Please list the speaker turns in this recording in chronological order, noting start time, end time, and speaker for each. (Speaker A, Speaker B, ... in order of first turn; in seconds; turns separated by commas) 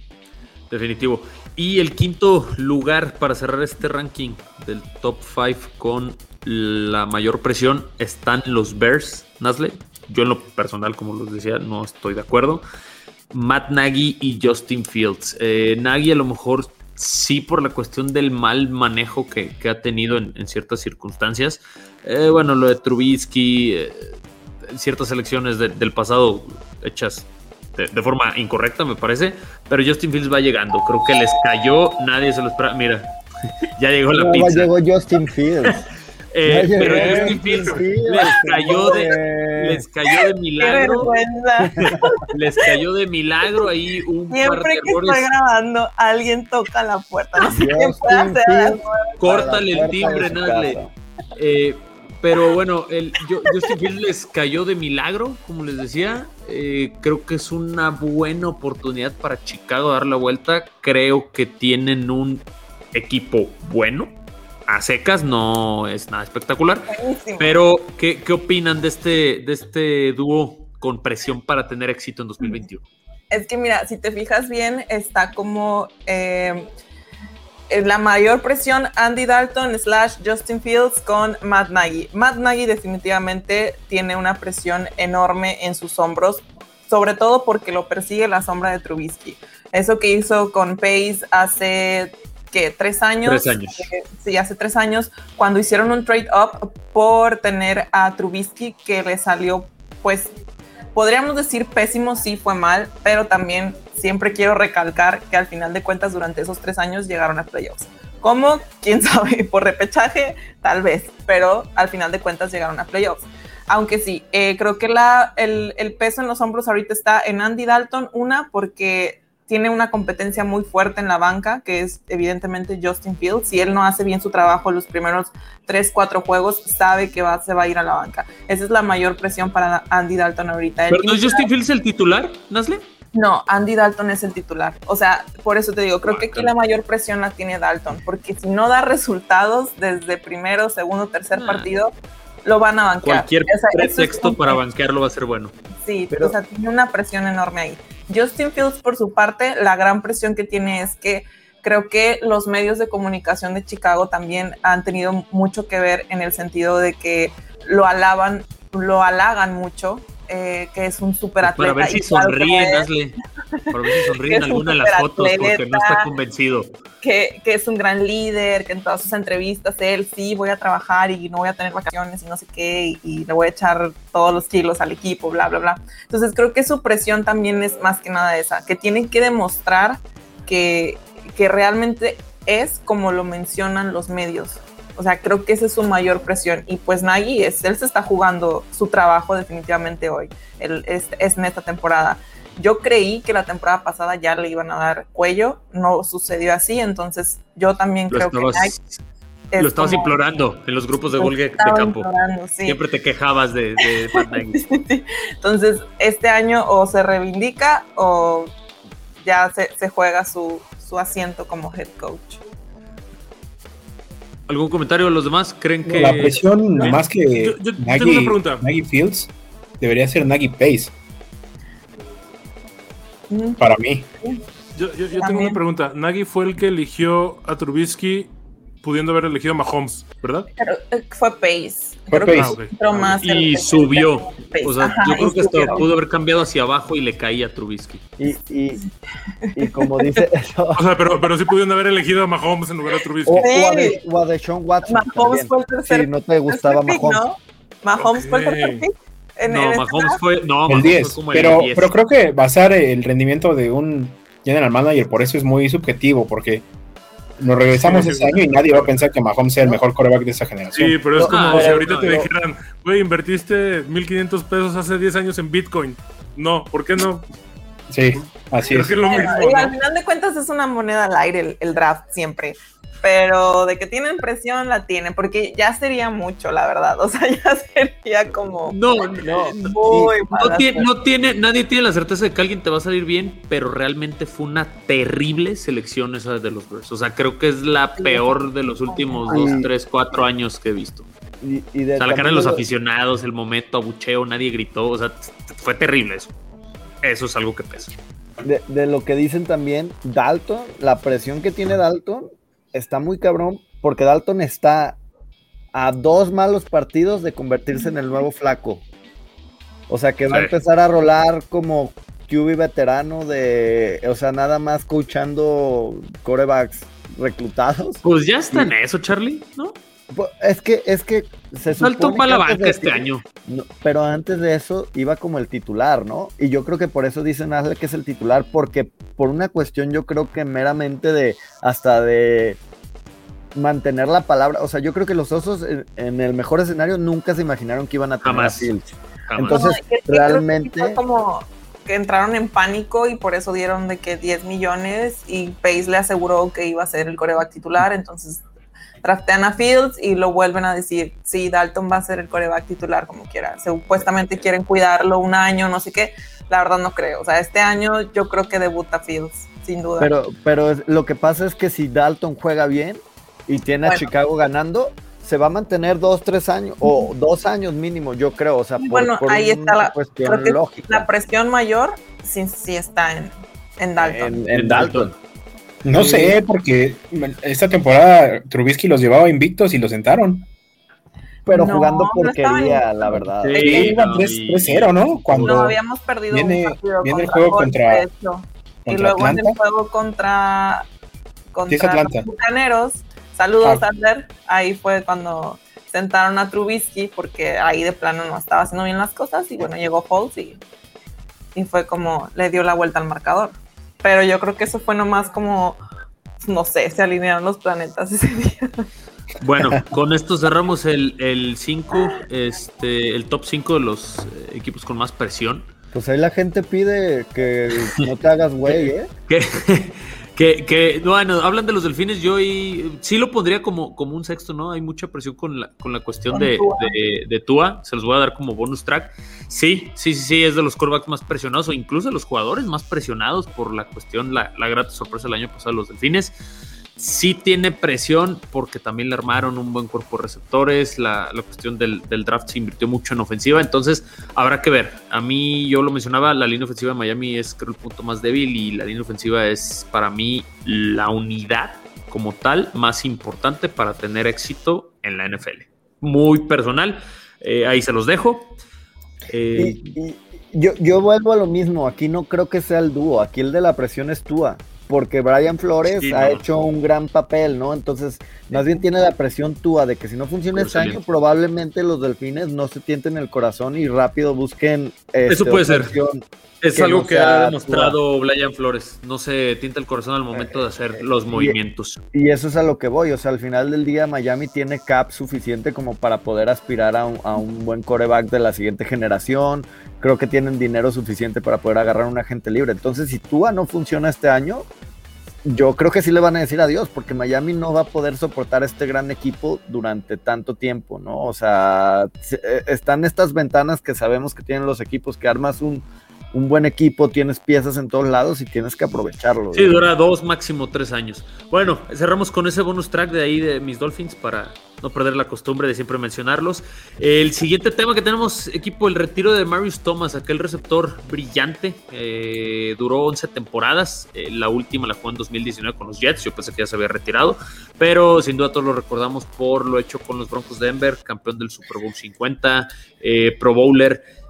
Speaker A: 0.7-12.7, Speaker A: 13.3-33.1, Speaker A: 33.6-34.7, Speaker B: 34.1-35.8, Speaker A: 36.3-41.1, Speaker B: 36.4-39.8, Speaker C: 36.8-37.8, Speaker D: 38.6-39.1, Speaker D: 40.6-42.3, Speaker B: 41.8-42.1, Speaker A: 42.3-45.2, Speaker D: 44.3-49.2, Speaker B: 47.5-50.9, Speaker A: 49.2-50.8, Speaker A: 51.4-64.1, Speaker A: 64.7-72.9, Speaker D: 66.9-67.6, Speaker D: 73.3-76.7, Speaker D: 77.7-100.3, Speaker A: 93.2-93.9, Speaker D: 101.0-131.5, Speaker A: 130.9-132.8, Speaker D: 133.1-141.9, Speaker A: 136.1-136.5, Speaker A: 141.3-141.7, Speaker D: 142.4-144.6, Speaker A: 143.0-145.6, Speaker D: 145.8-162.9, Speaker B: 146.1-146.4, Speaker A: 161.4-163.2, Speaker A: 163.7-166.7, Speaker D: 164.2-166.1, Speaker D: 167.0-198.7, Speaker A: 198.1-199.0, Speaker D: 199.5-200.2, Speaker A: 199.6-202.1, Speaker D: 201.2-202.8, Speaker A: 202.7-204.6, Speaker D: 204.2-208.5, Speaker D: 209.2-212.4, Speaker A: 214.5-216.9, Speaker E: 215.9-220.9, Speaker C: 216.8-218.7, Speaker D: 223.3-223.7, Speaker E: 223.6-224.1, Speaker C: 224.8-228.3, Speaker D: 225.2-225.6, Speaker C: 228.8-230.5, Speaker D: 230.6-235.9, Speaker E: 232.1-232.6, Speaker C: 232.1-232.7, Speaker A: 232.9-238.0, Speaker B: 238.2-238.8, Speaker D: 239.4-240.2, Speaker B: 239.6-240.8, Speaker C: 240.8-243.5, Speaker B: 243.3-247.2, Speaker D: 243.4-244.0, Speaker D: 244.9-250.2, Speaker C: 248.0-248.8, Speaker A: 249.5-251.9, Speaker E: 250.7-256.7, Speaker E: 257.4-261.1, Speaker C: 257.7-259.1, Speaker C: 260.7-267.2, Speaker B: 261.2-262.3, Speaker A: 261.2-262.2, Speaker E: 267.9-269.0, Speaker C: 268.6-269.8, Speaker D: 269.0-278.8, Speaker A: 278.7-279.7, Speaker B: 279.2-280.2, Speaker D: 279.6-280.9, Speaker A: 280.4-291.1, Speaker D: 288.0-289.6, Speaker B: 289.3-289.7, Speaker B: 291.4-292.6, Speaker A: 292.0-296.4, Speaker A: 297.0-298.0, Speaker B: 298.4-305.0, Speaker B: 305.7-308.9, Speaker B: 309.9-318.7, Speaker A: 310.3-310.6, Speaker A: 318.0-319.8, Speaker B: 320.1-332.6, Speaker A: 321.8-323.2, Speaker B: 333.5-341.0, Speaker A: 338.2-338.7, Speaker A: 339.3-339.7, Speaker D: 339.5-348.4, Speaker D: 349.0-360.1, Speaker B: 360.0-371.1, Speaker D: 368.8-374.4, Speaker B: 374.0-375.1, Speaker A: 374.5-375.1, Speaker E: 375.8-380.5, Speaker A: 375.9-376.3, Speaker B: 376.0-376.3, Speaker B: 381.5-383.7, Speaker D: 381.5-383.9, Speaker A: 383.4-385.7, Speaker E: 383.5-388.1, Speaker D: 385.5-390.9, Speaker E: 388.9-389.6, Speaker D: 391.5-400.6, Speaker E: 391.7-392.3, Speaker D: 401.6-405.8, Speaker D: 406.4-408.9, Speaker A: 409.4-415.7, Speaker B: 415.9-419.1, Speaker A: 418.7-436.4, Speaker D: 426.3-426.9, Speaker A: 437.0-458.6, Speaker A: 459.3-460.0, Speaker B: 459.6-478.0, Speaker A: 465.9-466.4, Speaker A: 470.5-471.0, Speaker A: 475.3-476.0, Speaker A: 476.6-482.0, Speaker B: 480.4-481.6, Speaker B: 482.1-494.7, Speaker B: 495.4-509.9, Speaker A: 509.5-534.0